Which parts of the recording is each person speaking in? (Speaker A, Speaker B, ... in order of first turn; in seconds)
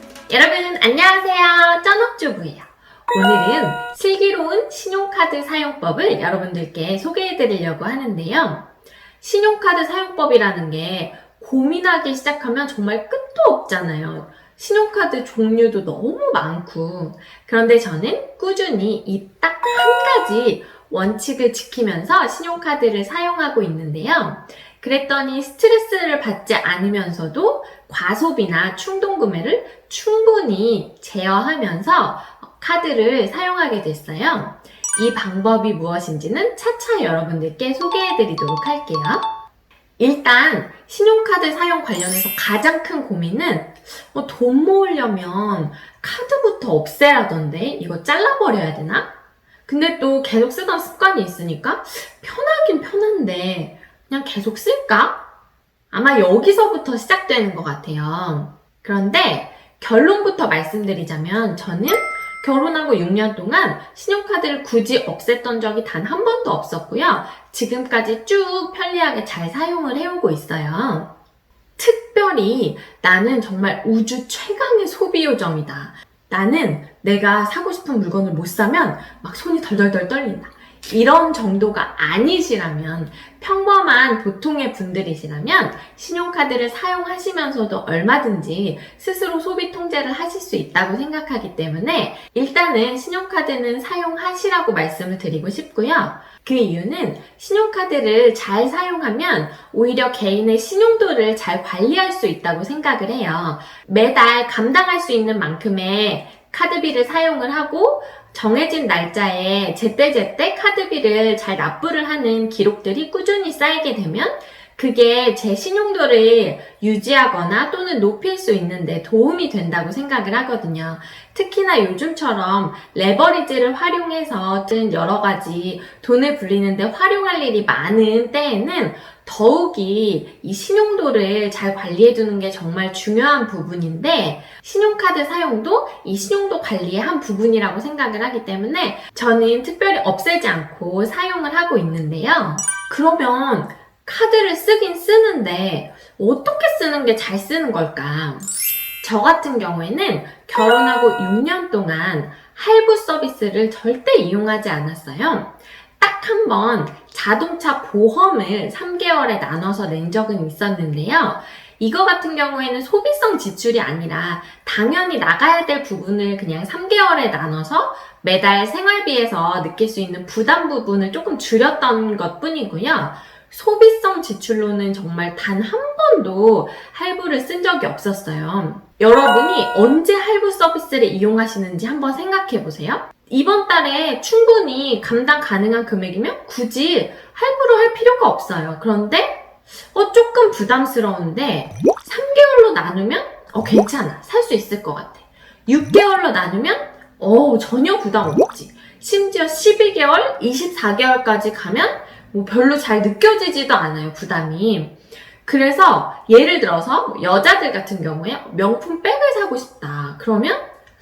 Speaker A: 0.3-8.7, 9.2-39.3, 40.0-49.1, 49.6-55.3, 55.9-71.1, 71.8-148.5, 149.0-210.7